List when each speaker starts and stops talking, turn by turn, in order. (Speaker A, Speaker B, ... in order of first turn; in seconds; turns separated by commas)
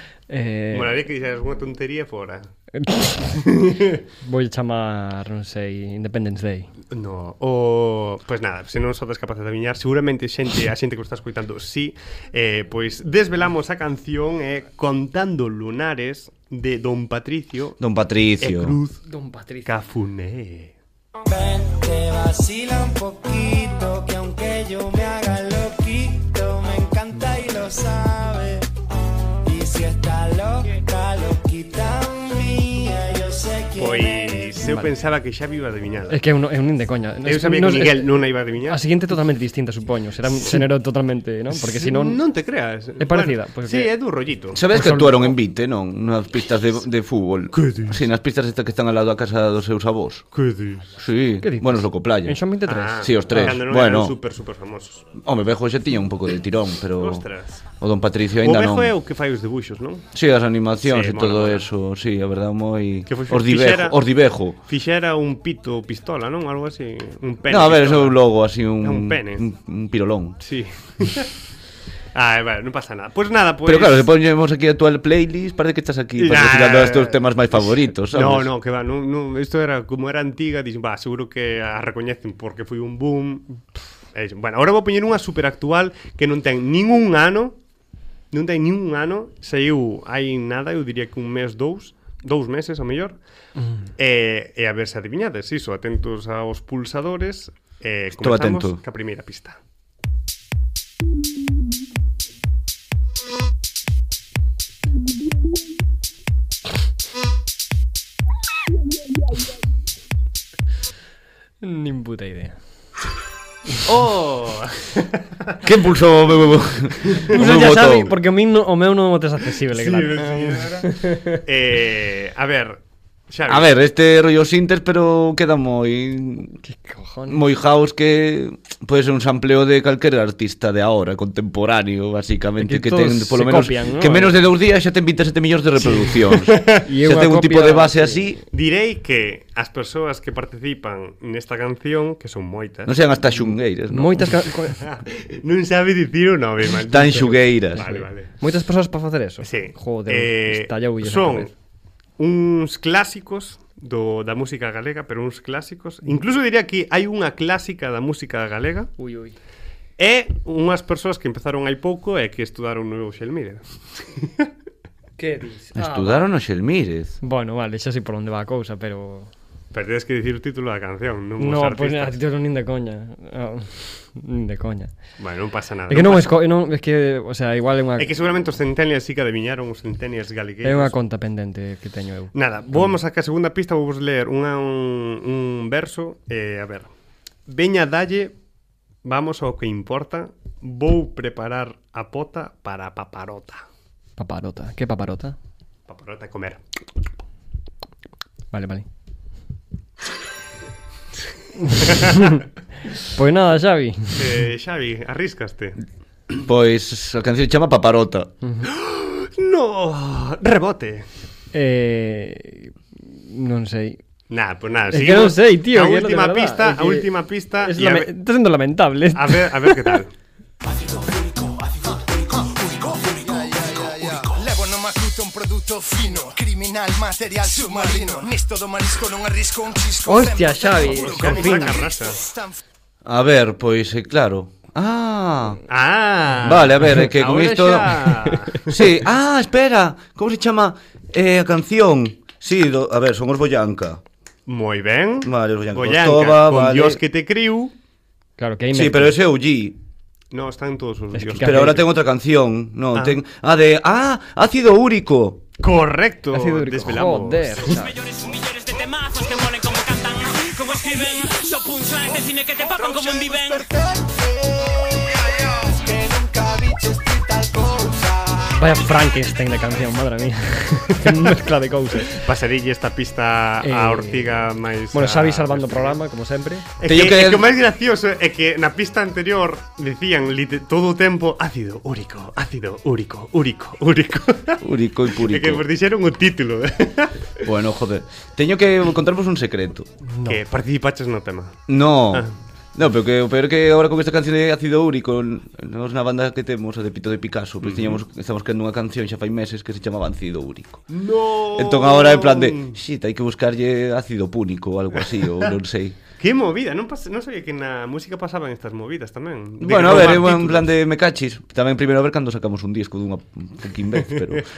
Speaker A: 0.3-1.0, Speaker B: 0.7-2.5, Speaker A: 2.7-3.4, Speaker B: 3.3-4.0, Speaker A: 4.2-6.7, Speaker B: 6.9-17.8, Speaker C: 17.8-18.8, Speaker B: 18.4-19.0, Speaker A: 19.1-19.8, Speaker B: 19.6-20.7, Speaker D: 21.2-28.7, Speaker D: 29.4-34.6, Speaker B: 33.8-36.2, Speaker A: 34.6-34.9, Speaker A: 36.1-42.2, Speaker B: 37.2-38.9, Speaker B: 40.4-40.6, Speaker B: 41.5-44.6, Speaker A: 43.0-43.9, Speaker C: 44.5-50.2, Speaker A: 44.7-45.3, Speaker B: 47.5-48.0, Speaker B: 50.3-50.9, Speaker C: 51.0-52.4, Speaker A: 51.4-53.6, Speaker B: 52.6-55.1, Speaker C: 53.0-54.1, Speaker C: 55.2-57.2, Speaker B: 57.0-57.6, Speaker C: 57.8-58.9, Speaker B: 58.4-60.1, Speaker C: 60.1-64.6, Speaker B: 60.8-61.7, Speaker B: 63.1-64.0, Speaker B: 64.6-68.2, Speaker C: 67.5-70.4, Speaker B: 68.8-69.5, Speaker B: 70.4-71.3, Speaker B: 72.1-74.1, Speaker C: 73.6-78.5, Speaker B: 76.2-87.6, Speaker B: 88.3-93.2, Speaker B: 94.0-99.6, Speaker C: 98.2-98.8, Speaker A: 111.6-112.6, Speaker B: 113.8-115.5, Speaker C: 115.6-118.1, Speaker A: 117.3-121.4, Speaker B: 119.7-123.7, Speaker C: 123.5-126.6, Speaker A: 126.6-127.4, Speaker C: 127.3-138.4, Speaker A: 132.6-134.4, Speaker B: 136.5-136.8, Speaker A: 136.7-138.3, Speaker B: 138.5-142.9, Speaker C: 142.8-144.4, Speaker A: 143.9-144.9, Speaker B: 144.8-148.3, Speaker C: 146.9-147.8, Speaker A: 147.8-151.5, Speaker B: 149.4-151.5, Speaker B: 152.2-158.9, Speaker A: 159.0-159.3, Speaker B: 160.0-163.6, Speaker B: 164.1-164.5, Speaker A: 165.2-166.2, Speaker C: 165.8-167.2, Speaker A: 167.2-169.3, Speaker B: 169.7-172.2, Speaker A: 171.4-174.9, Speaker B: 175.2-176.3, Speaker A: 175.9-178.1, Speaker B: 178.0-180.9, Speaker A: 180.6-182.9, Speaker B: 182.3-186.9, Speaker B: 187.5-188.3, Speaker B: 189.0-193.6, Speaker A: 194.2-195.3, Speaker B: 195.9-196.6, Speaker A: 198.5-198.8, Speaker A: 201.6-202.4, Speaker B: 201.8-202.3, Speaker A: 203.0-204.4, Speaker B: 204.2-205.8, Speaker C: 206.3-208.3, Speaker A: 208.4-208.7, Speaker B: 208.6-211.1, Speaker A: 211.5-214.0, Speaker B: 214.3-218.1, Speaker A: 214.9-217.1, Speaker A: 217.6-220.0, Speaker B: 219.1-220.1, Speaker E: 220.9-232.6, Speaker A: 230.0-231.8, Speaker B: 231.0-232.2, Speaker C: 233.0-235.6, Speaker B: 235.7-238.8, Speaker C: 236.4-238.1, Speaker A: 238.3-238.6, Speaker C: 238.7-244.0, Speaker B: 244.5-247.7, Speaker C: 245.2-247.0, Speaker A: 248.4-249.2, Speaker C: 248.7-249.8, Speaker B: 250.3-251.8, Speaker A: 251.1-251.8, Speaker C: 251.4-255.4, Speaker B: 255.6-257.7, Speaker A: 256.3-258.0, Speaker F: 257.6-263.7, Speaker D: 262.6-268.7, Speaker A: 268.5-272.2, Speaker B: 272.1-276.0, Speaker A: 273.6-276.7, Speaker B: 276.8-284.6, Speaker C: 276.8-277.5, Speaker C: 284.6-285.6, Speaker B: 285.2-287.3, Speaker C: 287.4-289.9, Speaker A: 290.1-290.4, Speaker B: 290.2-292.3, Speaker C: 291.7-300.9, Speaker B: 297.6-298.0, Speaker B: 300.9-302.8, Speaker C: 301.5-306.0, Speaker B: 306.2-310.7, Speaker C: 309.6-314.5